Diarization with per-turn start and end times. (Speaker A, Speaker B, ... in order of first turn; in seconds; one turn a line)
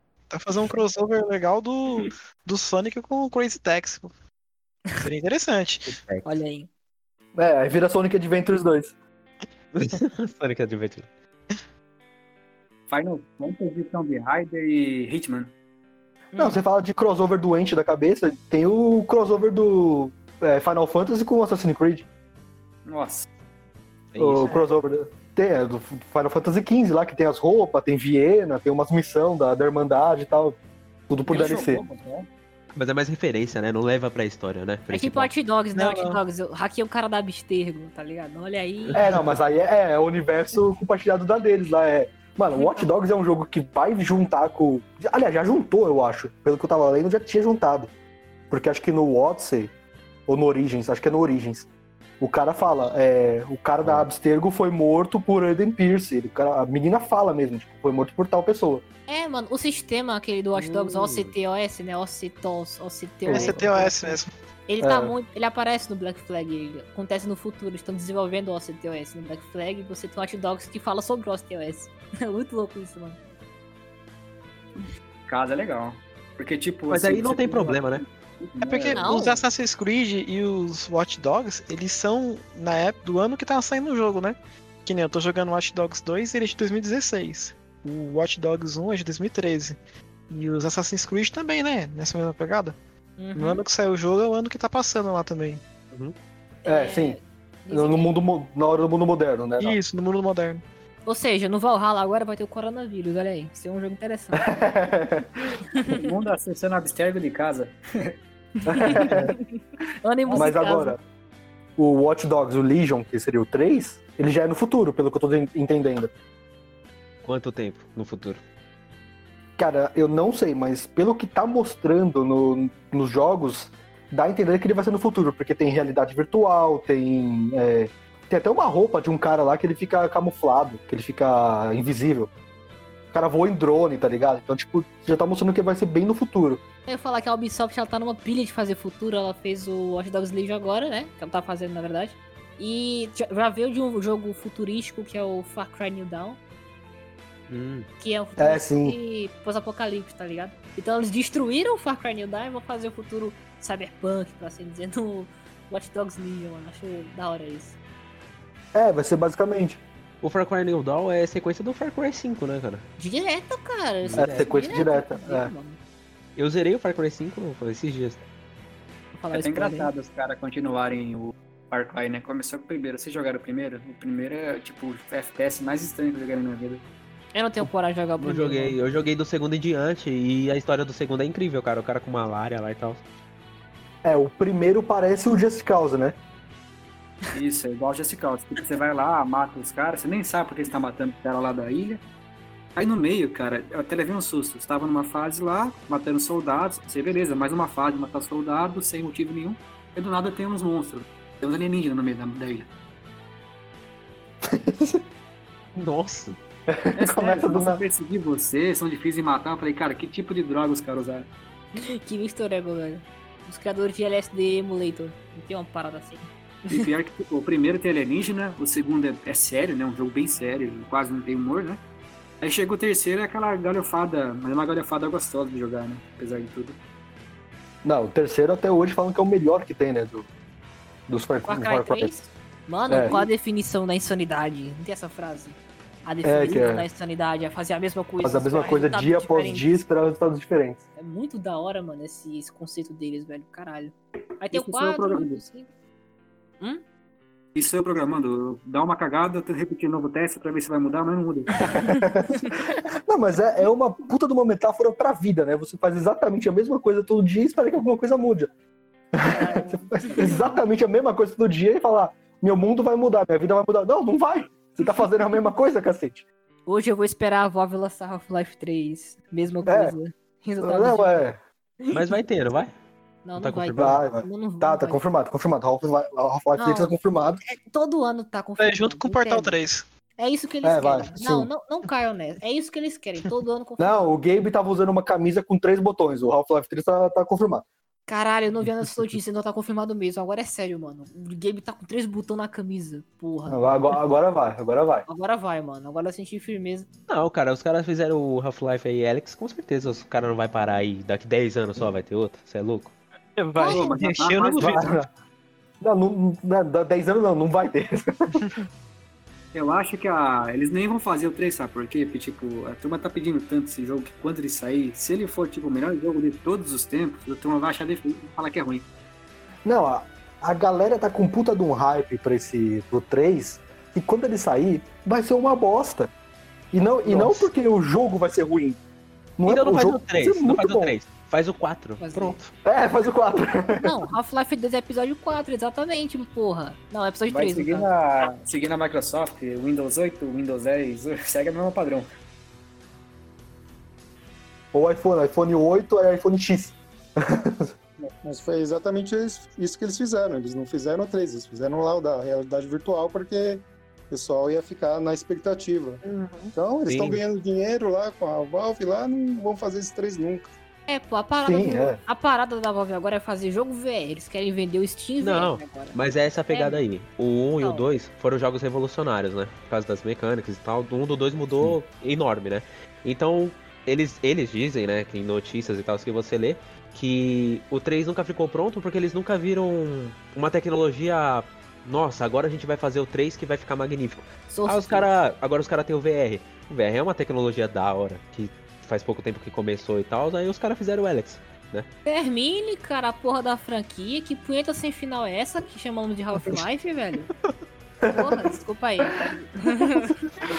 Speaker A: 0.3-4.1
Speaker A: 5.0-6.0
Speaker B: 5.9-6.3
Speaker C: 6.2-6.7
Speaker D: 7.4-8.9
Speaker B: 9.7-11.1
Speaker E: 12.9-15.5
Speaker C: 16.3-16.6
Speaker D: 16.4-22.1
Speaker E: 22.9-23.3
Speaker B: 24.1-24.6
Speaker D: 24.2-30.6
Speaker D: 31.1-31.8
Speaker E: 31.3-32.3
Speaker B: 32.7-35.3
Speaker C: 34.9-39.0
Speaker A: 35.7-36.2
Speaker D: 38.9-47.9
Speaker C: 42.6-42.9
Speaker D: 48.5-49.7
Speaker D: 50.3-51.7
Speaker D: 52.2-58.8
Speaker C: 59.1-73.2
Speaker B: 60.5-61.3
Speaker D: 63.3-63.6
Speaker A: 63.3-64.3
Speaker D: 64.8-65.2
Speaker E: 75.3-79.2
Speaker B: 76.9-78.0
Speaker A: 78.6-89.8
Speaker C: 79.0-79.4
Speaker A: 90.3-92.8
Speaker C: 93.2-93.6
Speaker A: 93.3-95.6
Speaker D: 96.7-97.2
Speaker C: 96.7-98.1
Speaker D: 97.7-99.8
Speaker A: 99.6-100.6
Speaker C: 101.1-104.7
Speaker D: 104.3-105.4
Speaker C: 105.7-106.1
Speaker E: 105.9-108.1
Speaker C: 108.6-109.4
Speaker D: 108.7-109.4
Speaker C: 110.0-111.0
Speaker D: 110.3-111.0
Speaker D: 111.8-116.1
Speaker B: 117.2-118.4
Speaker D: 119.6-132.3
Speaker D: 133.1-136.6
Speaker C: 136.9-146.4
Speaker B: 147.5-147.9
Speaker C: 148.0-157.8
Speaker D: 148.4-149.0
Speaker D: 158.7-159.8
Speaker B: 160.2-162.8
Speaker C: 163.0-165.8
Speaker B: 164.0-164.5
Speaker D: 164.2-165.5
Speaker B: 166.4-168.2
Speaker C: 169.2-169.9
Speaker E: 169.3-176.8
Speaker C: 177.3-178.8
Speaker B: 177.6-183.0
Speaker D: 184.0-186.2
Speaker E: 187.3-192.0
Speaker E: 192.8-202.7
Speaker D: 204.4-205.0
Speaker B: 205.8-206.4
Speaker D: 206.7-207.8
Speaker E: 207.0-211.3
Speaker C: 211.8-216.9
Speaker E: 216.7-221.8
Speaker E: 222.4-226.8
Speaker D: 227.8-230.3
Speaker D: 231.1-232.2
Speaker C: 231.5-239.7
Speaker D: 232.9-233.3
Speaker D: 236.2-236.9
Speaker D: 238.2-240.8
Speaker C: 241.0-245.7
Speaker E: 244.5-245.4
Speaker E: 247.6-251.8
Speaker D: 251.6-258.5
Speaker D: 259.1-266.2
Speaker C: 259.3-260.6
Speaker C: 266.7-271.2
Speaker D: 269.6-270.0
Speaker D: 270.6-271.4
Speaker B: 271.9-272.7
Speaker C: 273.2-275.0
Speaker B: 273.4-274.0
Speaker D: 273.8-277.4
Speaker C: 276.6-276.9
Speaker C: 277.4-279.6
Speaker A: 278.6-279.8
Speaker C: 280.2-284.0
Speaker D: 280.6-281.5
Speaker D: 283.8-287.6
Speaker C: 288.1-293.8
Speaker D: 293.5-295.1
Speaker C: 295.1-296.9
Speaker B: 297.1-302.9
Speaker A: 303.4-304.9
Speaker C: 303.6-303.9
Speaker E: 303.6-305.0
Speaker D: 304.6-305.1
Speaker D: 305.8-308.4
Speaker E: 309.5-318.9
Speaker D: 319.6-326.1
Speaker D: 326.7-328.8
Speaker B: 327.1-327.5
Speaker D: 329.4-331.0
Speaker B: 329.5-332.5
Speaker C: 332.0-332.4
Speaker D: 332.6-334.1
Speaker C: 333.8-337.9
Speaker E: 337.3-342.1
Speaker D: 344.7-347.7
Speaker F: 348.2-356.0
Speaker B: 356.1-357.2
Speaker F: 356.6-360.5
Speaker C: 360.9-366.8
Speaker D: 361.4-362.0
Speaker B: 365.2-391.9
Speaker C: 367.6-367.9
Speaker C: 384.5-385.1
Speaker C: 392.1-397.3
Speaker D: 398.0-399.1
Speaker C: 398.1-400.2
Speaker D: 399.6-400.1